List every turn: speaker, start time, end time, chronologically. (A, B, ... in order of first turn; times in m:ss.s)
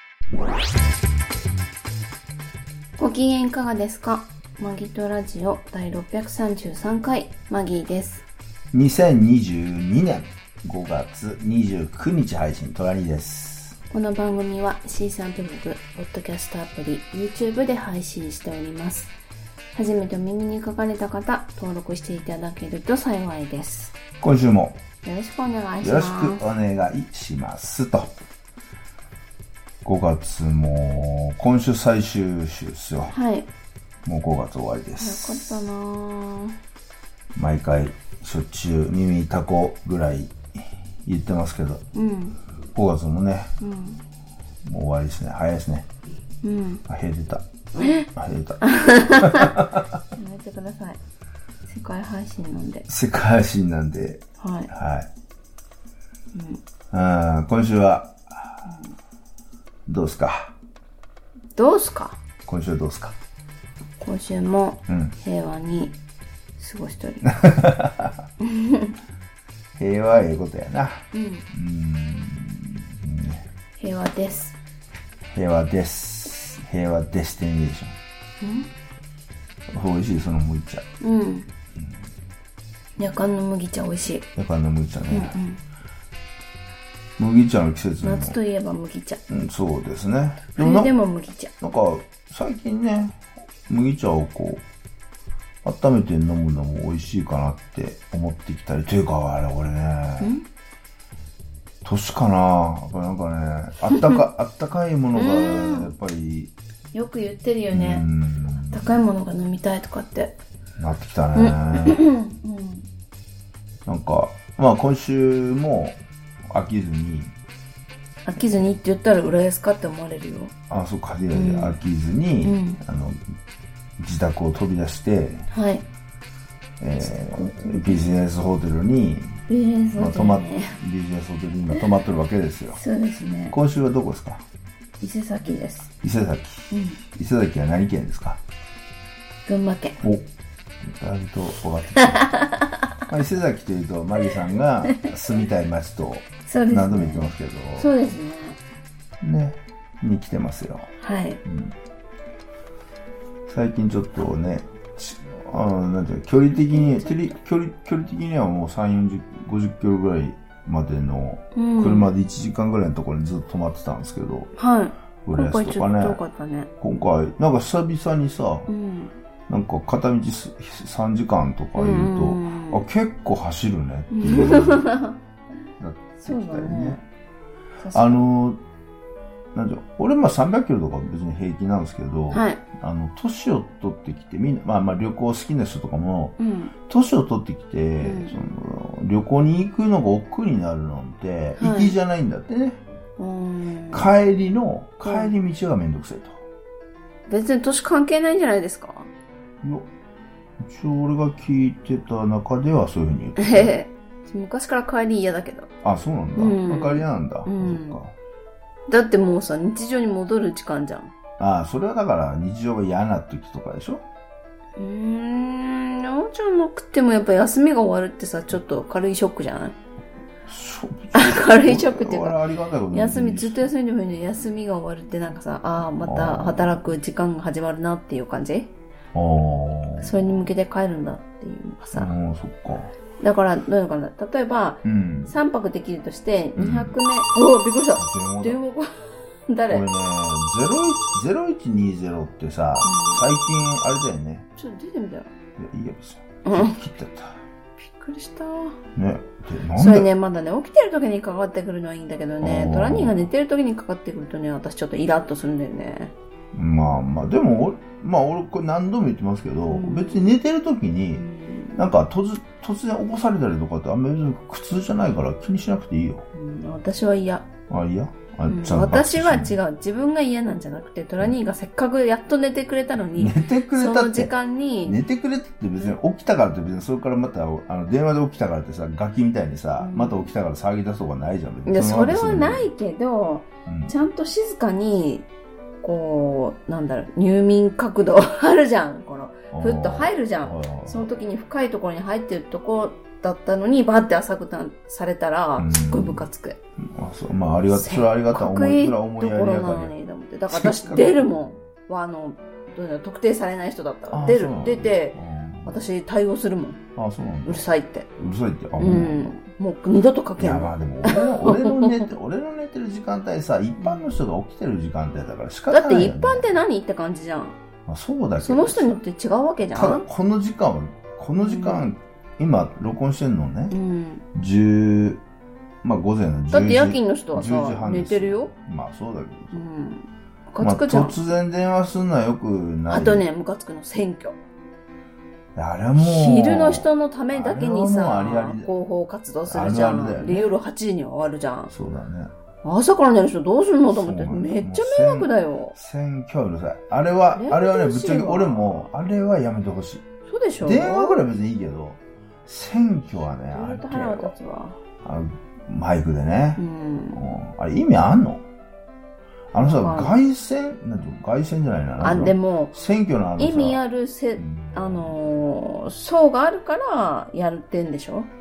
0:03.0-0:08.2 A
0:08.7-0:13.8 B
0:13.9-0:19.1 A
0:19.7-0:23.9 A
0:24.2-0:24.8 B
0:25.0-0:26.4 A
0:25.8-0:28.1 B
0:29.8-0:33.1 B
0:33.1-0:33.5 A
0:34.0-0:35.6 B
0:35.0-0:36.6 A
0:37.4-0:41.8 B
0:41.9-0:42.4 A
0:42.7-0:43.5 B
0:43.6-0:44.0 A
0:44.6-0:45.8 B
0:46.4-0:46.8 A
0:46.9-0:47.4 B
0:47.7-0:48.1 A
0:48.1-0:49.9 B
0:48.6-0:49.6 A
0:50.1-0:51.0 A
0:51.7-0:52.9 A
0:52.9-0:55.1 B
0:54.4-0:54.7 A
0:56.3-0:56.6 A
0:56.9-0:58.5 B
0:58.6-0:58.9 A
0:59.9-1:00.5 B
1:01.6-1:02.2 A
1:02.4-1:03.2 B
1:04.0-1:06.0 A
1:04.9-1:05.1 B
1:06.6-1:07.4 A
1:07.2-1:08.1 B
1:08.4-1:08.9 A
1:09.8-1:13.4 B
1:11.1-1:11.4 A
1:13.8-1:14.6 A
1:15.3-1:18.0 B
1:18.4-1:18.7 A
1:19.7-1:20.8 B
1:21.0-1:21.5 A
1:23.0-1:24.3 A
1:24.4-1:25.4 B
1:25.1-1:25.6 A
1:27.2-1:28.4 B
1:28.0-1:29.2 A
1:29.3-1:30.9 B
1:30.6-1:31.5 A
1:31.6-1:34.6 B
1:35.6-1:40.3 B
1:40.2-1:40.4 A
1:41.8-1:46.5 B
1:43.9-1:44.2 A
1:45.1-1:45.9 A
1:46.9-1:48.0 A
1:47.7-1:48.9 B
1:48.7-1:50.4 A
1:50.8-1:52.0 B
1:51.4-1:52.9 A
1:53.8-1:57.3 B
1:58.2-2:00.5 A
2:00.7-2:03.2 B
2:01.3-2:01.8 A
2:02.4-2:02.8 A
2:04.0-2:05.4 B
2:05.5-2:05.8 A
2:06.8-2:09.4 B
2:07.0-2:08.0 A
2:09.5-2:10.8 A
2:09.9-2:12.8 B
2:12.7-2:13.6 A
2:13.5-2:14.4 B
2:15.0-2:15.9 A
2:16.0-2:18.4 B
2:16.7-2:17.0 A
2:19.5-2:20.0 A
2:20.8-2:22.2 B
2:22.0-2:22.9 A
2:23.1-2:27.9 B
2:24.8-2:25.1 A
2:26.4-2:28.6 A
2:29.2-2:30.9 B
2:31.0-2:31.4 A
2:31.4-2:31.7 B
2:33.5-2:44.5 B
2:36.5-2:37.4 A
2:41.5-2:42.1 A
2:44.6-2:46.7 A
2:45.2-2:46.2 B
2:46.8-2:48.7 B
2:48.7-2:49.1 A
2:49.5-2:54.8 B
2:51.8-2:52.8 A
2:54.1-2:55.2 A
2:55.8-2:57.0 B
2:56.2-2:57.0 A
2:57.8-2:58.2 A
2:57.9-2:58.6 B
2:59.5-3:06.3 B
3:02.3-3:02.6 A
3:06.4-3:06.7 A
3:06.9-3:12.8 B
3:08.0-3:08.4 A
3:11.6-3:12.0 A
3:13.2-3:14.1 A
3:13.9-3:16.4 B
3:15.0-3:15.3 A
3:17.3-3:19.1 A
3:19.6-3:19.9 B
3:20.6-3:23.7 B
3:23.4-3:25.7 A
3:25.8-3:28.1 B
3:26.4-3:28.0 A
3:28.9-3:31.1 A
3:31.4-3:34.0 B
3:34.8-3:39.8 A
3:40.5-3:43.7 B
3:41.1-3:42.4 A
3:42.9-3:48.7 A
3:46.0-3:46.7 B
3:49.1-3:50.5 B
3:50.0-3:52.1 A
3:51.9-3:52.9 B
3:53.2-3:59.8 A
3:54.8-3:55.3 B
3:56.6-3:56.9 B
3:58.0-3:58.6 B
3:59.7-4:04.4 B
4:02.8-4:03.3 A
4:04.6-4:05.3 A
4:05.6-4:07.3 B
4:06.4-4:06.8 A
4:07.8-4:08.8 A
4:09.0-4:10.1 B
4:09.8-4:16.1 A
4:12.4-4:13.2 B
4:16.5-4:21.2 B
4:19.7-4:20.3 A
4:21.2-4:21.8 A
4:21.8-4:26.2 B
4:26.3-4:27.5 A
4:27.7-4:29.6 B
4:28.4-4:35.0 A
4:33.2-4:34.3 B
4:34.8-4:42.7 B
4:39.8-4:40.3 A
4:41.6-4:45.2 A
4:43.7-4:43.9 B
4:45.8-4:56.6 A
4:49.5-4:51.1 B
4:55.6-4:56.2 B
4:56.8-4:59.9 B
4:57.7-5:06.8 A
5:00.5-5:01.2 B
5:04.1-5:05.8 B
5:07.0-5:09.3 B
5:07.3-5:08.1 A
5:08.8-5:12.1 A
5:10.4-5:16.5 B
5:13.8-5:14.1 A
5:15.7-5:17.6 A
5:17.8-5:19.0 B
5:18.4-5:20.0 A
5:19.7-5:23.7 B
5:21.4-5:21.9 A
5:23.7-5:24.2 A
5:24.3-5:25.2 B
5:25.8-5:29.6 B
5:26.5-5:28.5 A
5:29.5-5:31.2 A
5:30.6-5:33.2 B
5:32.9-5:34.4 A
5:35.5-5:38.7 B
5:36.0-5:41.7 A
5:39.5-5:40.5 B
5:41.7-5:42.3 B
5:42.6-5:45.8 A
5:43.9-5:50.0 B
5:47.3-5:48.9 A
5:50.3-5:51.2 A
5:50.6-5:54.3 B
5:53.5-5:54.8 A
5:55.0-5:56.6 B
5:56.6-5:57.3 A
5:57.1-5:58.4 B
5:59.5-6:03.8 B
5:59.6-6:00.2 A
6:02.0-6:02.8 A
6:03.4-6:08.3 A
6:04.4-6:05.2 B